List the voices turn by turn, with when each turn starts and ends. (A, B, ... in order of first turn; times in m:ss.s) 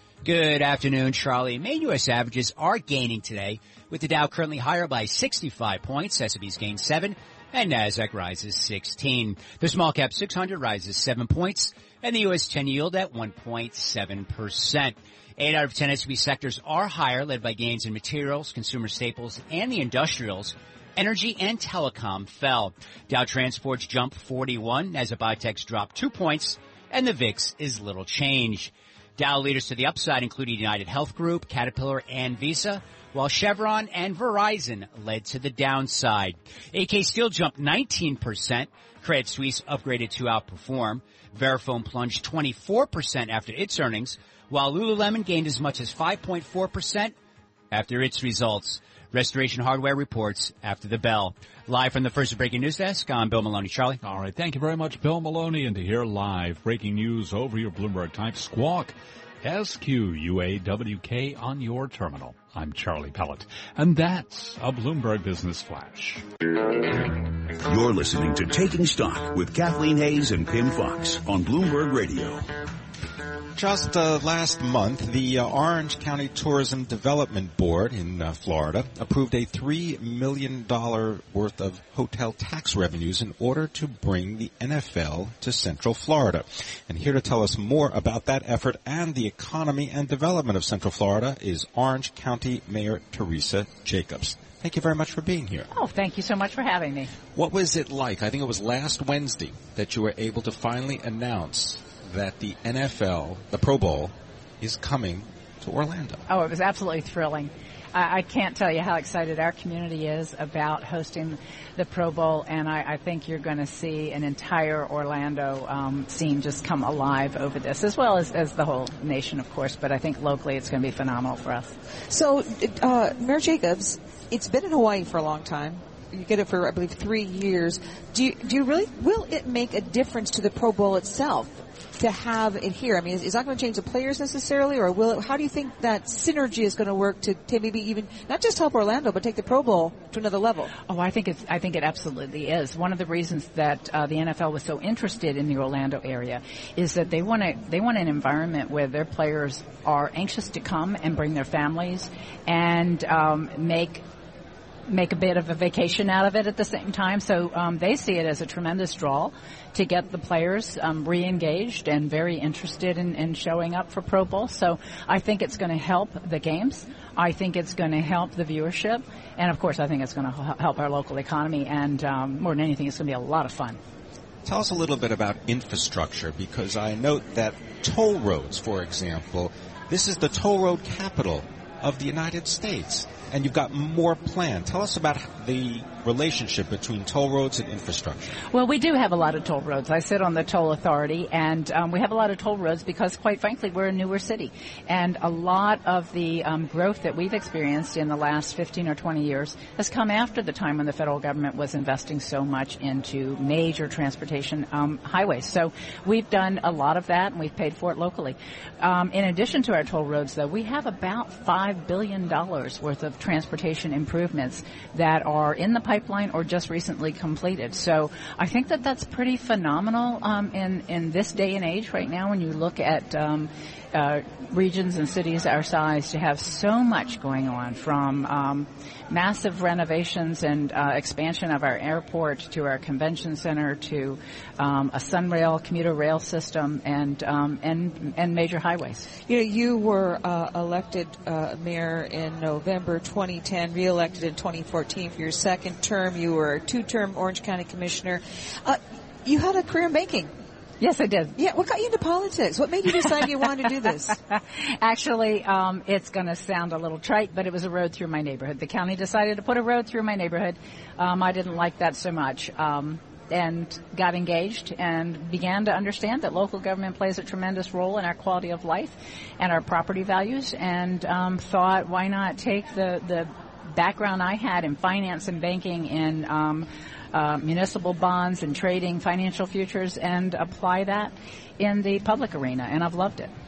0:00.2-0:47.1 A
0:47.7-0:54.0 A
0:54.0-1:06.2 B
1:07.6-1:12.4 C
1:13.6-1:35.7 D
1:35.7-1:37.1 E
1:37.3-1:46.2 D
1:46.3-2:01.7 E
2:02.1-2:20.7 F
2:20.9-2:34.0 E
2:34.9-2:53.8 E
2:54.4-3:08.4 D
3:08.5-3:59.1 E
3:59.3-4:10.3 F
4:10.8-4:11.4 E
4:11.4-4:14.2 F
4:14.4-4:43.3 E